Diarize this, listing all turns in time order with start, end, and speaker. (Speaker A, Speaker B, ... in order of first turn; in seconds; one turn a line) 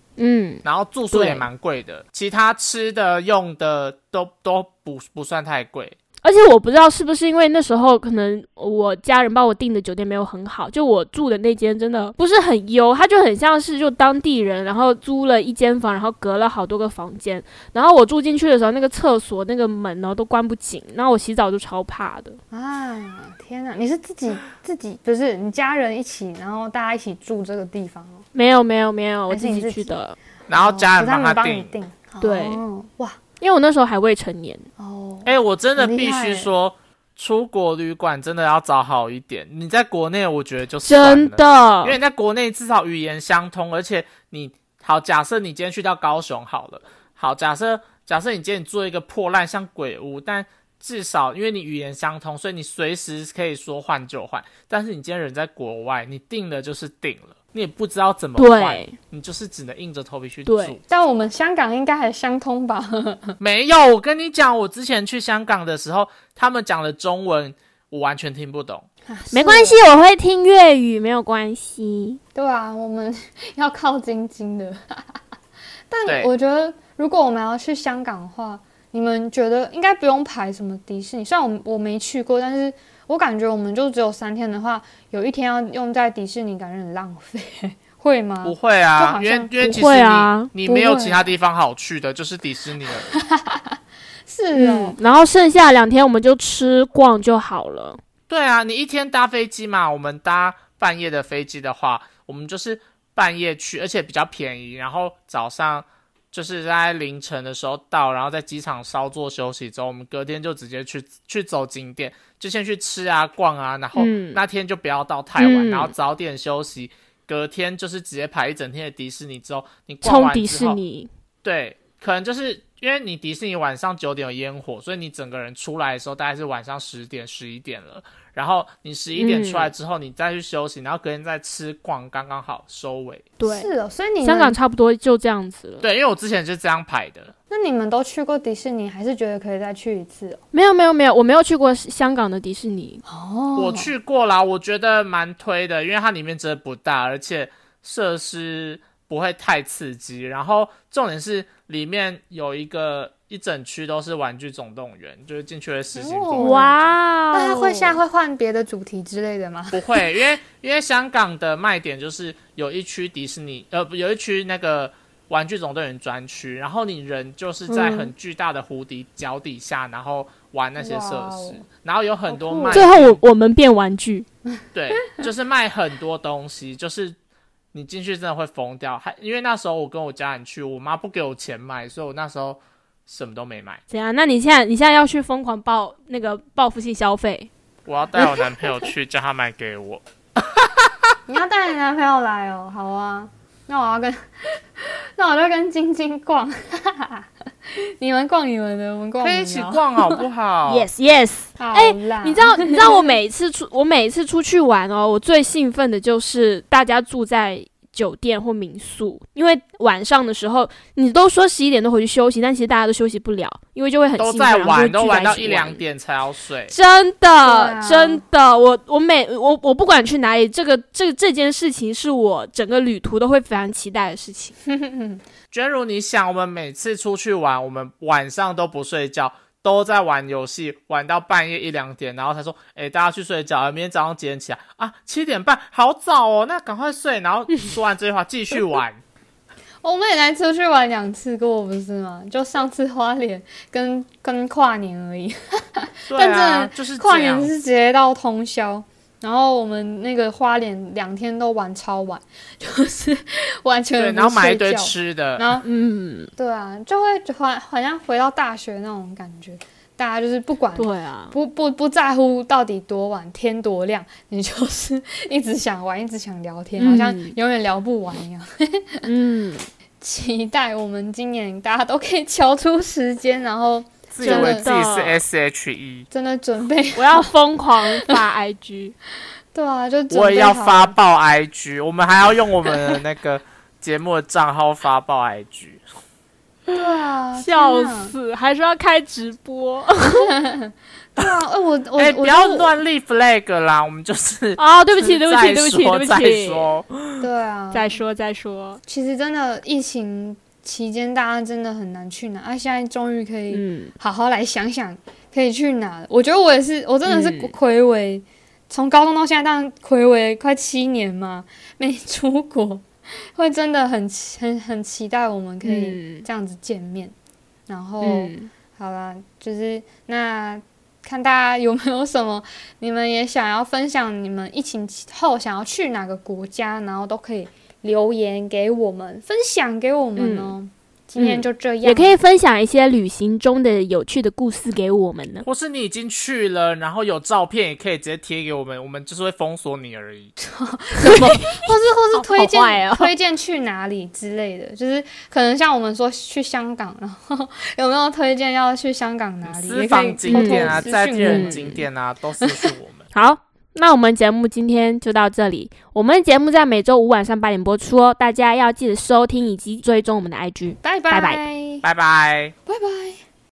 Speaker A: 0.2-1.5
Speaker B: 0.7-6.0
Speaker A: 6.2-22.4
Speaker C: 22.5-28.2
Speaker A: 28.3-30.2
Speaker C: 29.3-30.0
Speaker B: 30.5-31.7
Speaker C: 30.5-33.2
Speaker A: 32.2-32.6
Speaker A: 33.4-34.7
Speaker C: 34.8-36.5
Speaker B: 35.2-60.8
Speaker A: 40.8-42.0
Speaker A: 58.4-58.9
Speaker A: 60.5-60.8
Speaker C: 60.9-63.4
Speaker B: 63.4-68.9
Speaker C: 69.1-69.8
Speaker A: 69.3-72.2
Speaker C: 72.3-75.2
Speaker C: 75.9-89.5
Speaker B: 76.0-76.3
Speaker B: 88.4-93.1
Speaker A: 89.6-90.5
Speaker C: 90.6-91.3
Speaker C: 93.1-95.0
Speaker A: 94.5-98.0
Speaker B: 98.3-120.8
Speaker A: 114.0-114.4
Speaker A: 115.4-115.9
Speaker A: 120.0-121.1
Speaker B: 121.4-133.3
Speaker A: 129.2-129.7
Speaker A: 133.4-133.7
Speaker C: 133.4-134.6
Speaker A: 134.2-135.8
Speaker B: 135.8-137.3
Speaker C: 137.5-140.4
Speaker A: 140.5-143.0
Speaker C: 143.1-143.9
Speaker B: 143.6-156.6
Speaker C: 155.9-159.8
Speaker A: 156.4-158.0
Speaker B: 159.7-173.2
Speaker A: 167.7-168.1
Speaker C: 170.8-171.7
Speaker C: 172.3-172.9
Speaker A: 172.7-174.3
Speaker B: 174.7-177.2
Speaker B: 177.7-183.8
Speaker A: 183.9-187.5
Speaker B: 187.9-191.0
Speaker C: 191.3-200.2
Speaker B: 199.2-200.9
Speaker A: 200.7-215.8
Speaker C: 201.6-203.2
Speaker B: 214.2-216.7
Speaker A: 216.7-224.6
Speaker C: 217.4-218.2
Speaker C: 224.7-225.2
Speaker B: 225.5-239.0
Speaker C: 239.8-255.7
Speaker B: 246.1-247.5
Speaker B: 254.0-255.4
Speaker A: 255.6-256.3
Speaker C: 256.4-269.1
Speaker A: 260.8-261.4
Speaker A: 266.8-267.4
Speaker A: 269.0-269.7
Speaker C: 270.0-274.7
Speaker B: 274.1-276.1
Speaker A: 274.2-275.2
Speaker C: 276.1-277.3
Speaker A: 277.0-279.0
Speaker C: 279.5-281.0
Speaker B: 280.1-285.8
Speaker C: 286.7-288.1
Speaker A: 287.4-290.4
Speaker C: 290.1-292.7
Speaker B: 292.0-296.9
Speaker A: 294.6-298.8
Speaker C: 297.2-297.9
Speaker C: 298.9-317.1
Speaker A: 303.5-303.9
Speaker A: 307.1-307.6
Speaker A: 315.6-316.3
Speaker C: 317.7-332.2
Speaker A: 318.0-318.5
Speaker A: 330.2-330.6
Speaker A: 331.2-335.5
Speaker B: 335.4-340.3
Speaker C: 340.4-351.7
Speaker A: 341.0-343.1
Speaker B: 349.4-353.1
Speaker A: 350.3-351.8
Speaker C: 352.4-352.7
Speaker A: 353.1-361.4
Speaker C: 360.8-361.9
Speaker B: 361.8-362.6
Speaker C: 362.7-363.2